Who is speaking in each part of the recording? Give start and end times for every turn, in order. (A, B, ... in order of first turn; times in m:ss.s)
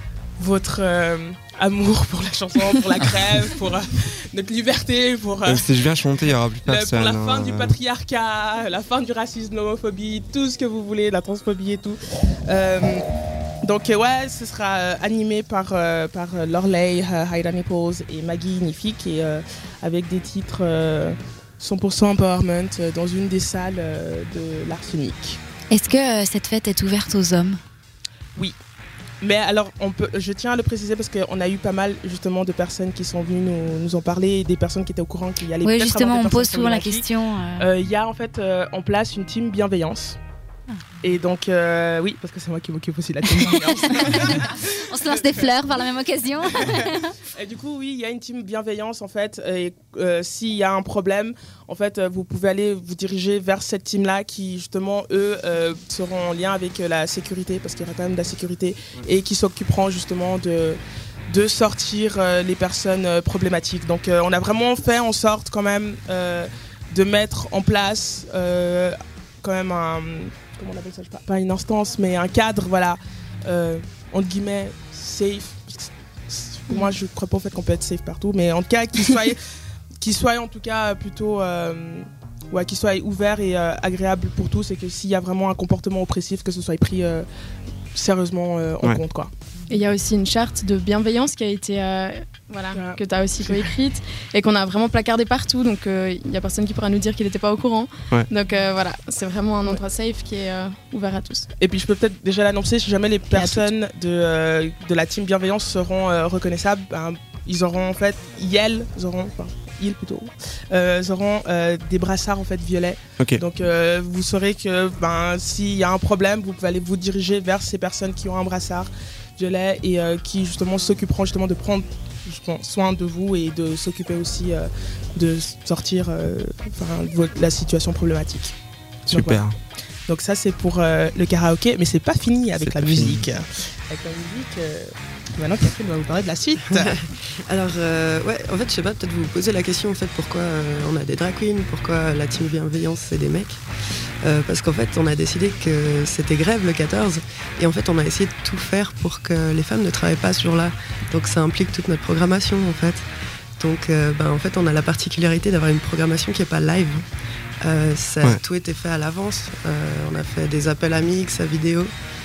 0:00.4-0:05.7 A
0:05.4-0:07.7 B
0:06.6-0:13.0 A
0:13.6-0:25.4 A
0:25.7-0:27.6 C
0:29.2-0:40.2 A
0:35.6-0:37.7 C
0:41.0-1:19.4 A
0:44.0-0:44.4 C
0:44.9-0:46.9 C
1:20.0-1:27.2 A
1:27.9-1:29.3 A
1:29.7-1:41.5 D
1:32.7-1:33.7 A
1:41.6-2:08.6 A
2:09.1-2:09.5 B
2:09.1-2:09.4 A
2:10.1-2:16.9 A
2:12.6-2:13.2 B
2:16.7-2:23.6 E
2:24.2-2:33.0 E
2:33.6-2:37.0 E
2:37.6-2:41.9 E